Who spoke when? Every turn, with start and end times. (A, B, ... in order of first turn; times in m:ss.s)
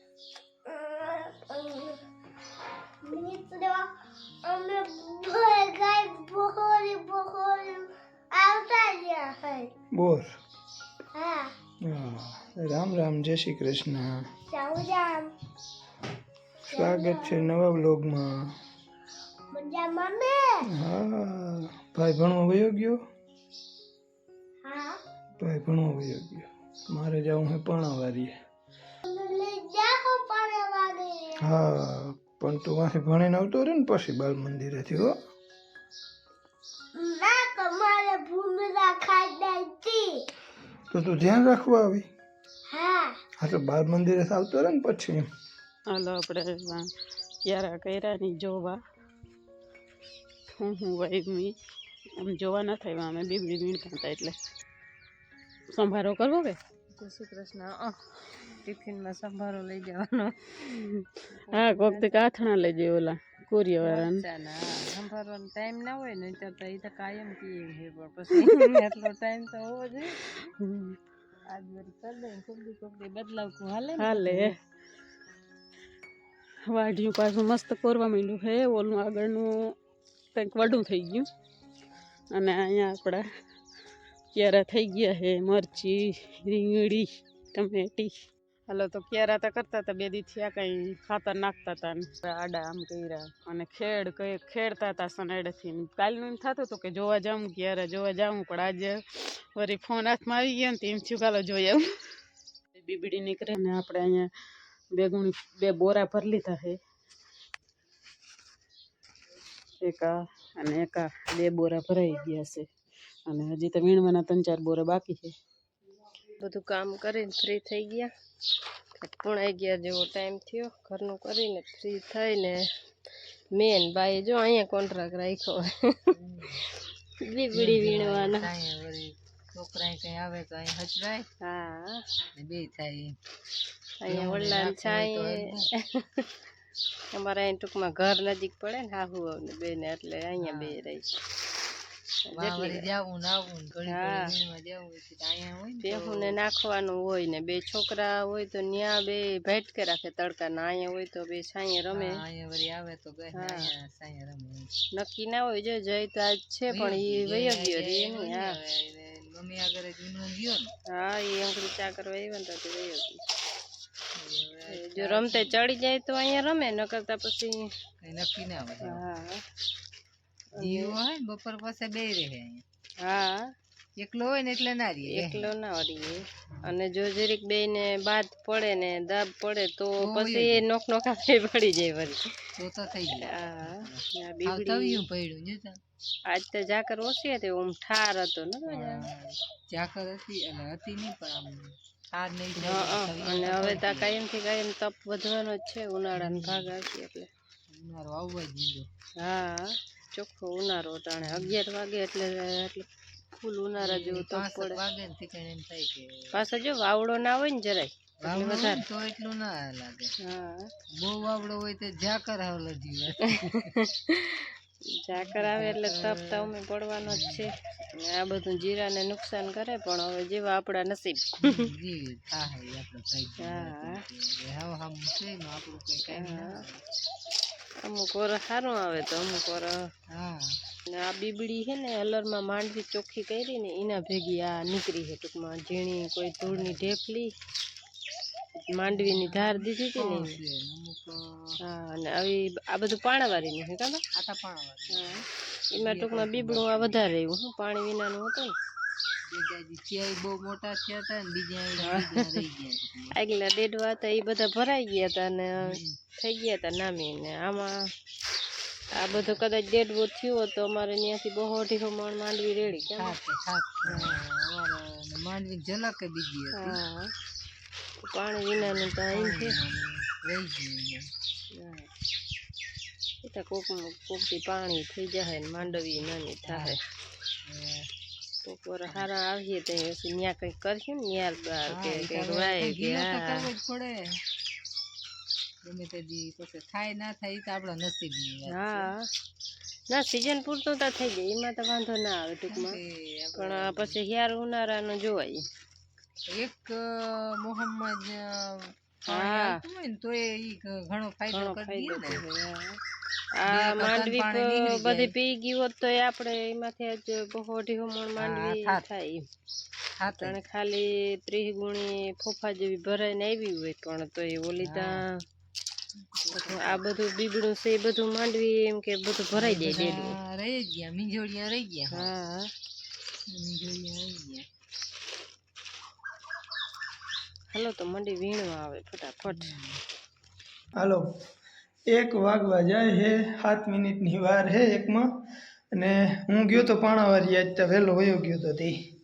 0:00.7-0:02.0 A
0:03.0-0:03.9 A
0:04.4-0:09.7 A
0:09.9-0:10.3 B
0:11.1-0:11.5 A
0:11.8-0:14.3 B
0:14.5-0:15.3 A
0:16.7-0:17.4 A
0:16.7-0:18.5 B
0:19.5-0:20.6 A
0:20.7-0:23.0 B
0:24.6-0:25.0 A
0:25.4-0:28.4 B
0:29.0-0:31.4 A
0:31.4-0:35.2 B
0:37.0-0:40.2 A
0:40.9-0:42.1 B
0:42.7-0:43.2 A
0:43.4-0:45.3 B
0:45.9-0:46.9 C
0:47.4-0:48.8 C
0:50.6-0:51.5 C
0:52.2-0:54.4 C
0:55.7-0:56.6 C
0:57.0-0:58.0 D
0:58.6-1:00.8 D
1:01.3-1:02.2 D
1:01.5-1:04.2 C
1:03.8-1:10.5 D
1:08.3-1:08.6 C
1:10.6-1:11.0 C
1:11.5-1:14.5 D
1:14.0-1:14.5 C
1:16.7-1:19.7 C
1:20.3-1:21.3 C
1:22.3-1:23.2 C
1:24.3-1:41.9 C
1:42.8-1:44.3 C
1:44.9-1:46.8 C
1:49.8-1:52.7 C
1:53.3-1:55.3 C
1:56.4-1:58.1 D
1:59.0-2:02.6 D
2:03.5-2:06.1 D
2:06.1-2:06.6 E
2:07.2-2:08.4 D
2:07.5-2:11.2 E
2:11.4-2:12.0 D
2:12.4-2:13.2 E
2:14.0-2:15.3 D
2:14.0-2:15.7 E
2:15.9-2:16.3 D
2:17.1-2:21.2 D
2:20.4-2:20.8 E
2:22.3-2:22.8 D
2:22.4-2:26.3 E
2:23.8-2:24.3 D
2:25.8-2:32.1 D
2:31.9-2:34.7 E
2:33.3-2:33.7 D
2:35.0-2:38.5 D
2:36.7-2:40.7 E
2:40.9-2:43.2 D
2:44.2-2:45.5 E
2:44.7-2:47.6 D
2:48.0-2:49.0 E
2:48.8-2:49.4 D
2:50.6-2:52.6 E
2:50.6-2:50.9 D
2:53.0-2:53.5 D
2:54.0-2:55.5 E
2:55.1-3:02.2 D
3:00.0-3:00.6 E
3:02.6-3:05.8 E
3:03.2-3:05.0 D
3:06.3-3:09.0 D
3:08.7-3:14.1 E
3:12.6-3:17.3 D
3:16.2-3:16.7 E
3:17.7-3:18.9 E
3:19.2-3:24.8 D
3:21.2-3:21.6 E
3:23.8-3:26.3 E
3:26.3-3:28.8 D
3:28.2-3:30.1 E
3:30.2-3:30.7 D
3:31.0-3:33.7 E
3:34.1-3:34.5 D
3:35.0-3:41.7 D
3:35.1-3:36.5 E
3:37.0-3:37.4 E
3:41.4-3:46.8 E
3:43.4-3:44.0 D
3:46.1-3:46.6 D
3:47.8-3:49.7 D
3:50.1-3:50.6 E
3:50.9-3:57.3 D
3:56.4-3:56.9 E
3:58.7-4:00.3 D
3:58.9-4:01.5 E
4:01.6-4:04.0 D
4:04.2-4:05.2 E
4:04.9-4:05.2 D
4:05.7-4:07.2 E
4:05.8-4:08.5 D
4:09.3-4:13.1 E
4:11.8-4:12.3 D
4:13.1-4:17.8 D
4:15.6-4:15.9 E
4:19.0-4:23.1 D
4:22.9-4:26.8 E
4:23.9-4:24.1 D
4:26.6-4:27.1 D
4:28.0-4:29.5 D
4:28.6-4:31.1 E
4:31.5-4:31.9 D
4:33.2-4:36.8 D
4:36.4-4:36.8 E
4:37.4-4:37.9 E
4:38.4-4:43.4 D
4:41.7-4:44.2 E
4:45.6-4:48.9 E
4:48.5-4:49.0 D
4:49.9-4:52.8 D
4:52.5-4:54.0 E
4:53.4-4:55.4 D
4:56.3-5:02.2 E
4:59.1-4:59.6 D
5:01.3-5:02.8 D
5:03.4-5:09.2 D
5:03.4-5:05.1 E
5:08.2-5:08.8 E
5:10.0-5:10.4 E
5:10.1-5:15.0 D
5:14.6-5:14.9 E
5:16.2-5:16.8 E
5:16.3-5:20.1 D
5:19.3-5:22.1 E
5:21.9-5:22.5 D
5:23.3-5:24.5 E
5:27.5-5:29.5 D
5:29.3-5:29.8 E
5:30.8-5:31.2 B
5:31.9-5:38.8 B